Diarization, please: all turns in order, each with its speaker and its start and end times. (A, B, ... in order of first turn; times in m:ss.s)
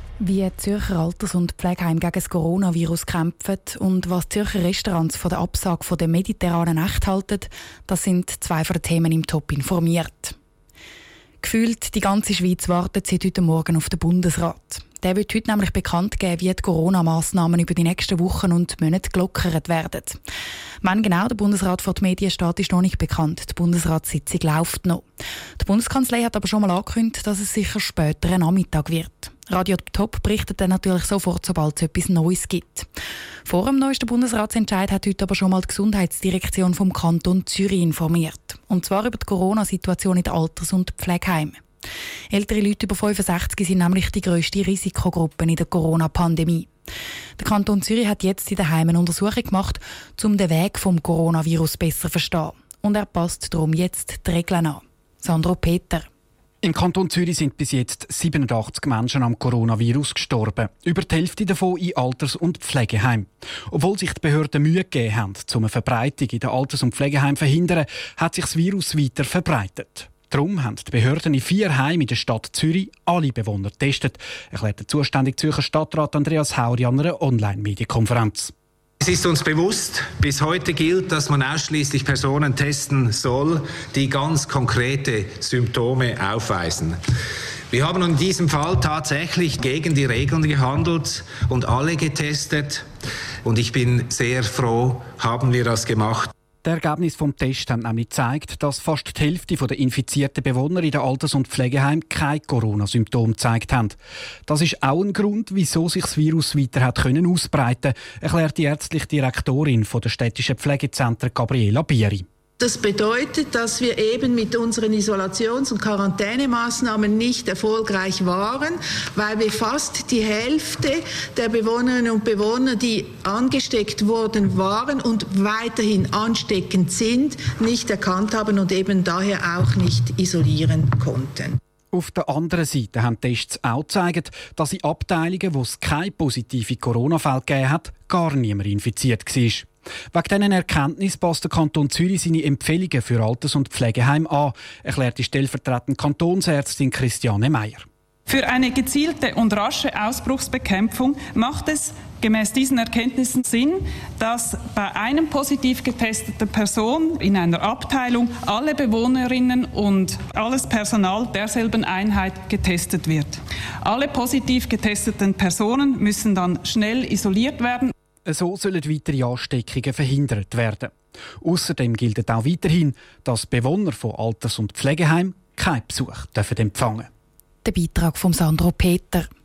0:00.2-0:10.4 A
0:11.4-0:20.2 A
0:20.8-0:25.0 A
0:25.6-0:32.9 A
0:33.5-0:41.6 A
0:42.3-0:46.7 A
0:47.4-0:56.1 A
0:56.6-1:18.5 B
1:19.0-1:27.0 C
1:27.7-1:32.8 C
1:33.4-1:36.3 C
1:36.6-1:52.2 B
1:52.6-2:11.4 D
2:11.9-2:27.9 B
2:28.3-2:47.9 E
2:48.3-2:57.1 B
2:57.6-2:59.3 A